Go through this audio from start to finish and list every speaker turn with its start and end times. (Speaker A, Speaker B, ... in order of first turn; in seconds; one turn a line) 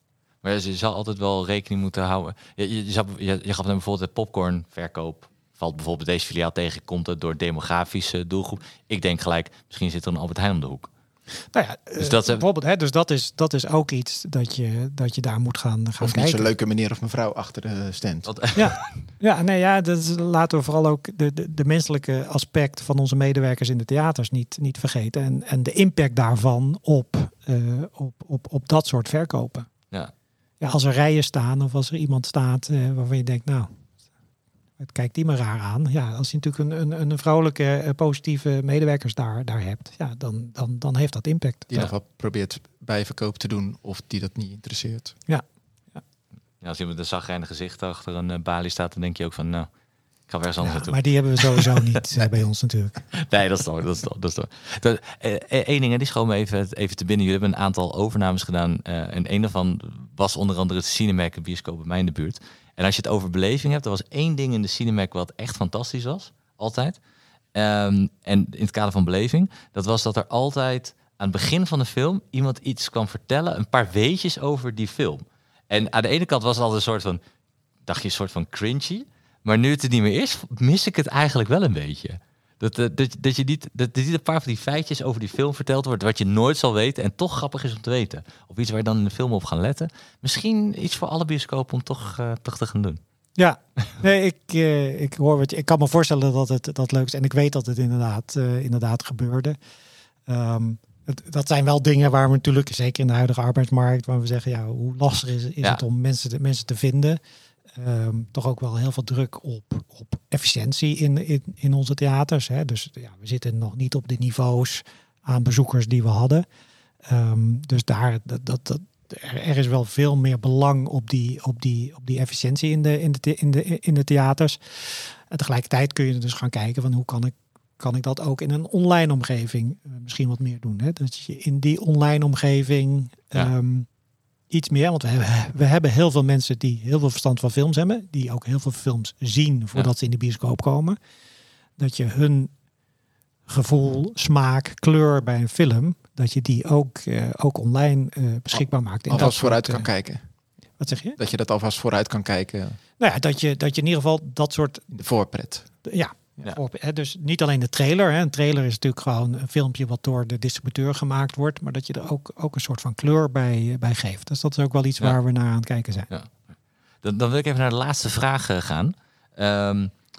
Speaker A: 0.4-10.9
Speaker B: 11.5-16.5
Speaker A: 12.0-12.4
Speaker C: 16.0-18.3
Speaker A: 18.3-18.7
Speaker B: 18.6-29.7
Speaker B: 30.6-33.7
Speaker B: 34.8-41.8
Speaker C: 41.7-45.2
Speaker A: 46.6-49.7
Speaker A: 50.3-51.8
Speaker B: 50.6-53.1
Speaker A: 53.1-67.0
Speaker A: 67.5-77.2
Speaker A: 77.9-93.0
Speaker B: 93.4-99.6
Speaker B: 100.3-107.2
Speaker B: 107.8-116.5
Speaker B: 117.1-133.9
Speaker B: 134.5-141.0
Speaker B: 141.8-142.5
Speaker B: 143.5-149.9
Speaker C: 149.1-150.2
Speaker B: 150.8-151.2
Speaker C: 151.2-152.8
Speaker B: 153.0-154.8
Speaker C: 154.9-155.7
Speaker B: 155.8-166.1
Speaker A: 166.1-166.5
Speaker A: 167.0-169.9